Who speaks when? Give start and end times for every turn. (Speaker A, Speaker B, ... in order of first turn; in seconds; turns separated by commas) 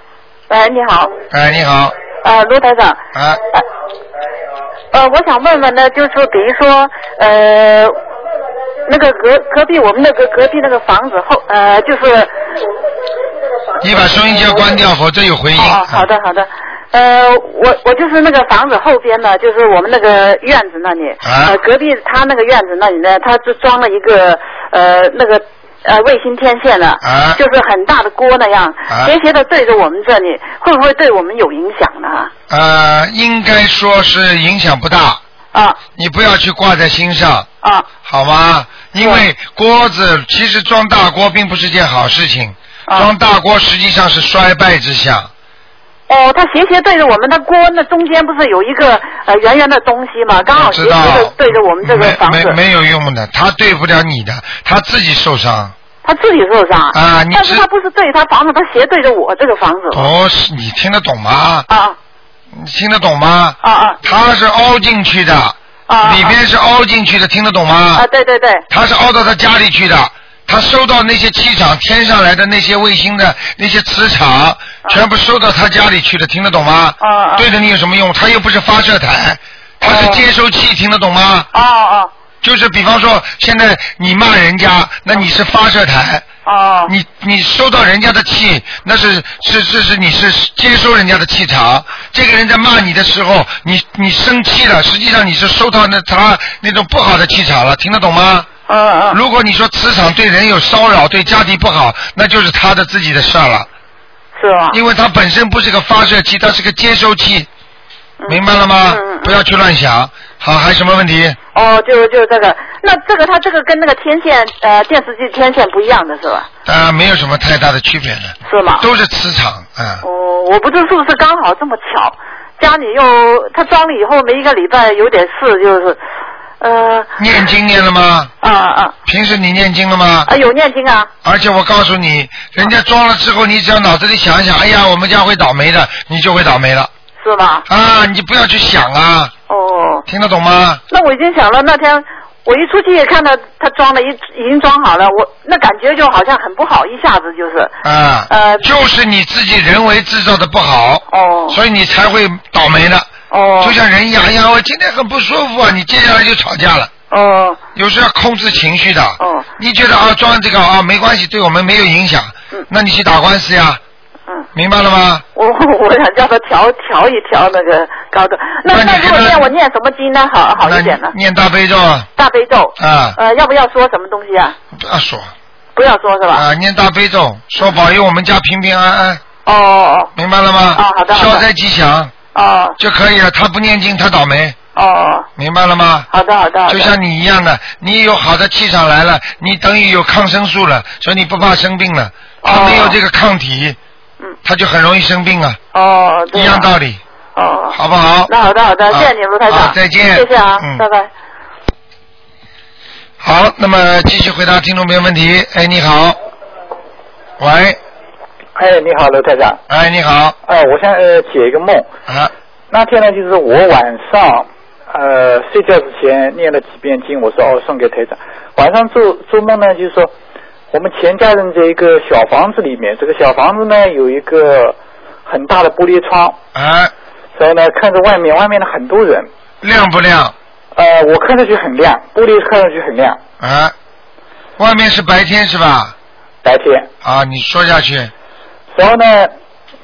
Speaker A: 0.5-1.1, Speaker B: 1.3-1.9, Speaker A: 2.2-3.6, Speaker B: 3.1-3.4, Speaker A: 4.9-8.0, Speaker A: 8.9-12.3, Speaker B: 13.8-16.1, Speaker A: 14.3-14.8, Speaker A: 15.6-32.3, Speaker B: 21.2-21.6, Speaker B: 27.0-27.4, Speaker B: 28.9-29.1, Speaker B: 32.5-35.2, Speaker A: 35.5-35.8, Speaker B: 36.0-37.5, Speaker A: 37.6-37.9, Speaker B: 38.0-45.3, Speaker A: 39.0-39.3, Speaker A: 46.1-52.6, Speaker B: 50.5-55.7, Speaker A: 56.0-60.1, Speaker B: 56.9-57.7, Speaker B: 59.9-61.7, Speaker A: 61.7-62.0, Speaker B: 62.5-68.1, Speaker A: 63.6-64.0, Speaker A: 65.9-66.4, Speaker A: 68.0-68.7, Speaker B: 68.7-81.5, Speaker A: 77.0-77.5, Speaker A: 79.8-80.3, Speaker A: 81.5-82.1, Speaker B: 82.4-86.3, Speaker A: 86.5-86.9, Speaker B: 86.9-98.5, Speaker A: 98.7-99.2, Speaker B: 99.1-103.7, Speaker A: 104.4-104.8, Speaker B: 104.7-107.5, Speaker A: 108.2-109.4, Speaker B: 108.3-111.4, Speaker A: 111.5-116.5, Speaker B: 116.7-120.0, Speaker A: 118.5-118.9, Speaker A: 120.0-126.0, Speaker A: 126.6-127.2, Speaker B: 127.2-128.3, Speaker A: 128.4-129.0, Speaker B: 129.1-130.3, Speaker A: 130.3-131.1, Speaker B: 131.2-136.9, Speaker A: 137.2-137.7, Speaker B: 137.7-139.3, Speaker A: 139.5-140.1, Speaker B: 140.1-140.8, Speaker A: 140.9-147.8, Speaker B: 147.8-156.9, Speaker A: 148.3-148.7, Speaker A: 151.1-151.6, Speaker A: 153.3-153.8, Speaker A: 157.1-157.6, Speaker B: 157.8-163.8, Speaker A: 159.2-159.5, Speaker B: 164.5-165.2, Speaker A: 165.3-171.1, Speaker B: 168.7-169.5, Speaker B: 170.6-172.1, Speaker A: 172.2-174.6, Speaker B: 172.8-173.2, Speaker B: 174.7-175.3, Speaker A: 175.8-176.4, Speaker B: 176.3-179.2, Speaker A: 179.4-180.1, Speaker B: 180.2-182.1, Speaker A: 180.7-181.5, Speaker A: 182.3-182.8, Speaker B: 182.8-184.6, Speaker A: 184.8-185.3, Speaker B: 185.4-186.1, Speaker A: 186.1-186.9, Speaker B: 186.7-193.8, Speaker A: 192.4-193.0, Speaker B: 194.4-195.6, Speaker A: 195.7-196.7, Speaker B: 196.3-197.0, Speaker A: 197.4-201.1, Speaker B: 197.7-198.3, Speaker B: 198.9-200.8, Speaker B: 203.2-206.2, Speaker B: 207.4-207.8, Speaker C: 208.6-209.6, Speaker B: 209.7-210.3, Speaker C: 210.5-211.9, Speaker C: 212.7-220.1, Speaker C: 220.7-226.4, Speaker B: 226.5-226.9, Speaker C: 227.4-229.3, Speaker B: 229.6-230.3, Speaker C: 230.8-233.2, Speaker B: 233.4-233.7, Speaker B: 234.6-235.9, Speaker C: 236.4-236.9, Speaker B: 237.0-238.1, Speaker C: 238.7-239.3